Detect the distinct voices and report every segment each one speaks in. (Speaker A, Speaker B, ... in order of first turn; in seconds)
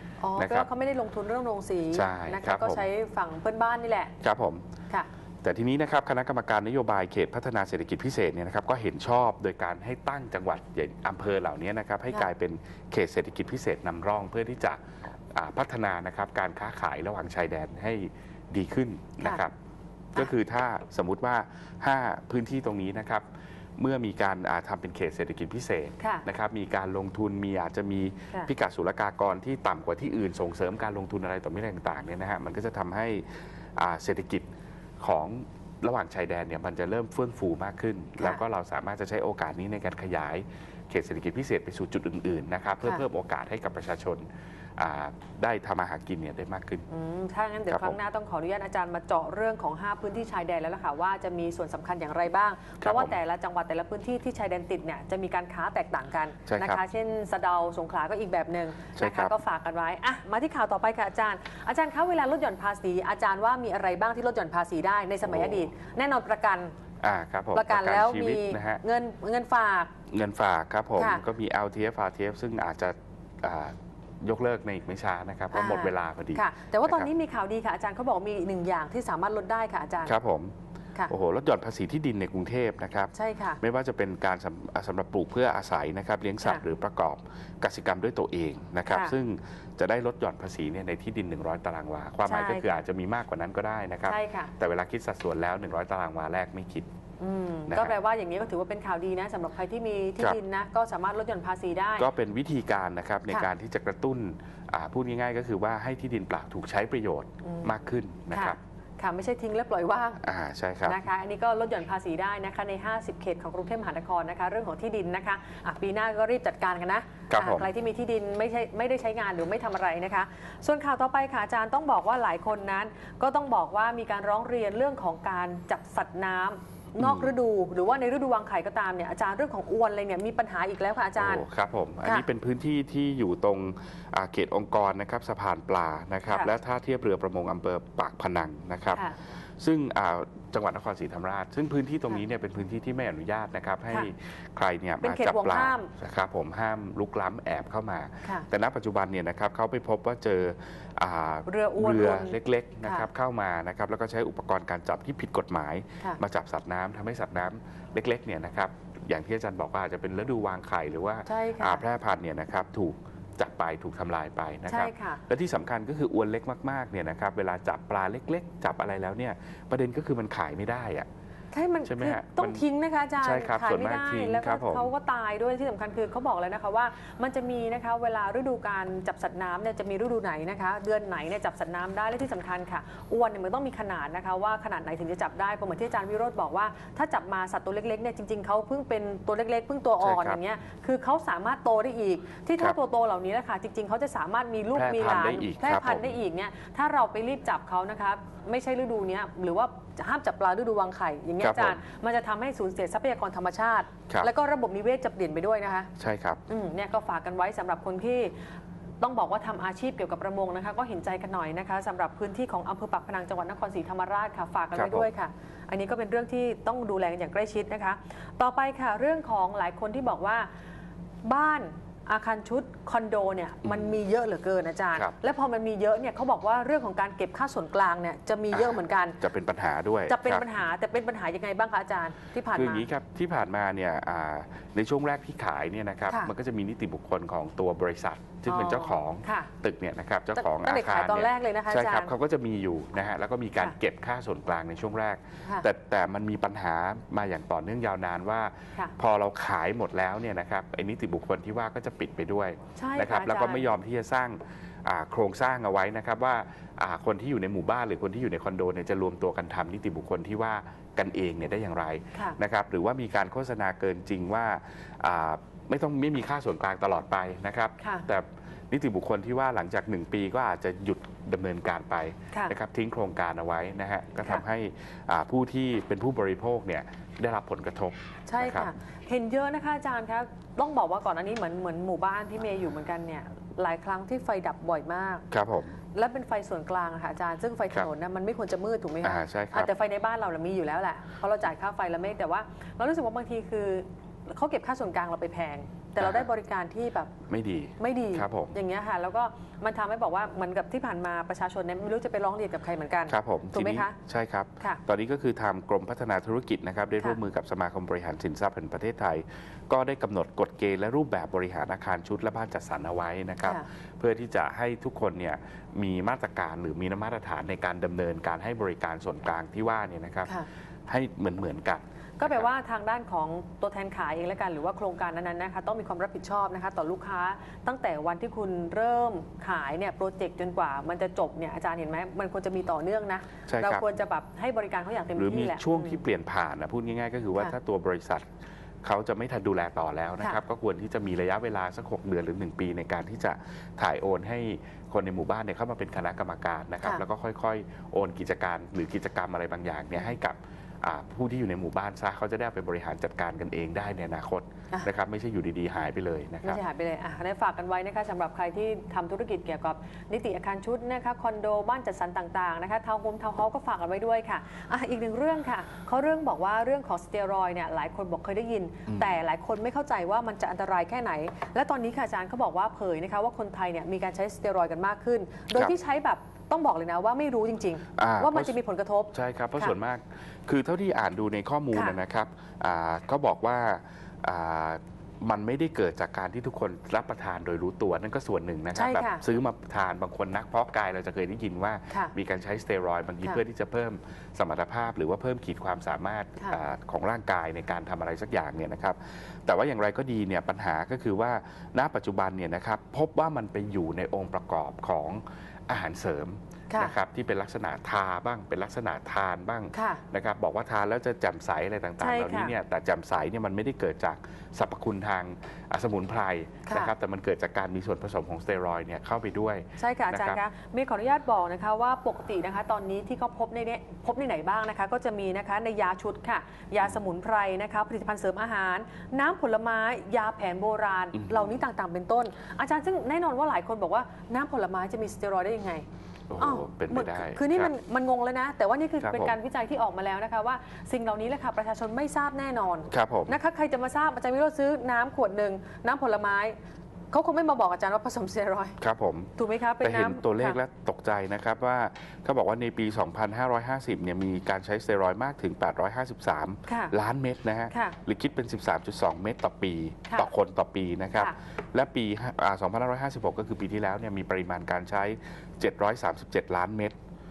Speaker A: 0.2-4.1, 26.0-26.2, 46.9-66.7, 67.5-69.9, 71.0-71.2, 75.5-80.1, 83.1-83.6, 88.9-89.2, 92.2-92.7, 94.0-94.5, 97.2-102.1, 107.4-110.2, 110.8-131.4, 145.0-145.9, 151.5-153.1, 161.2-161.8, 164.7-165.2, 171.5-205.9, 206.5-208.3, 209.0-220.5, 221.2-229.2, 230.1-232.9, 238.5-239.5, 240.3-242.1, 252.8-253.7, 267.8-268.1, 278.3-285.2, 285.9-297.1, 297.8-303.9, 322.2-336.0, 356.4-379.7, 381.7-382.0, 388.7-389.2, 406.7-406.9, 409.7-410.0, 412.0-412.5, 416.7-416.9, 419.8-435.8, 436.4-446.5, 447.1-448.8, 449.4-450.6, 456.7-456.9, 457.7-458.0
Speaker B: 0.3-0.7, 1.9-2.9, 4.2-4.6, 5.4-14.8, 15.3-19.5, 20.1-23.2, 23.8-34.5, 35.0-44.2, 44.8-46.9, 47.7-48.0, 52.8-53.1, 56.5-56.8, 59.0-59.3, 65.2-65.7, 67.0-68.8, 70.1-77.1, 80.0-80.5, 81.1-96.9, 97.7-97.9, 102.0-108.6, 110.2-111.0, 117.3-117.7, 127.0-127.3, 131.2-139.1, 139.6-171.1, 171.8-172.6, 173.2-174.9, 190.0-190.4, 194.7-196.1, 201.4-201.8, 206.0-206.4, 214.7-215.1, 223.6-223.9, 228.5-230.4, 232.5-278.7, 285.3-285.8, 289.0-289.7, 296.0-296.3, 297.3-298.6, 303.1-320.3, 320.9-322.4, 333.5-333.9, 335.1-338.3, 338.8-356.6, 368.9-369.1, 378.0-378.5, 379.1-420.4, 431.2-431.5, 436.3-437.7, 439.0-439.3, 442.9-443.4, 448.8-466.9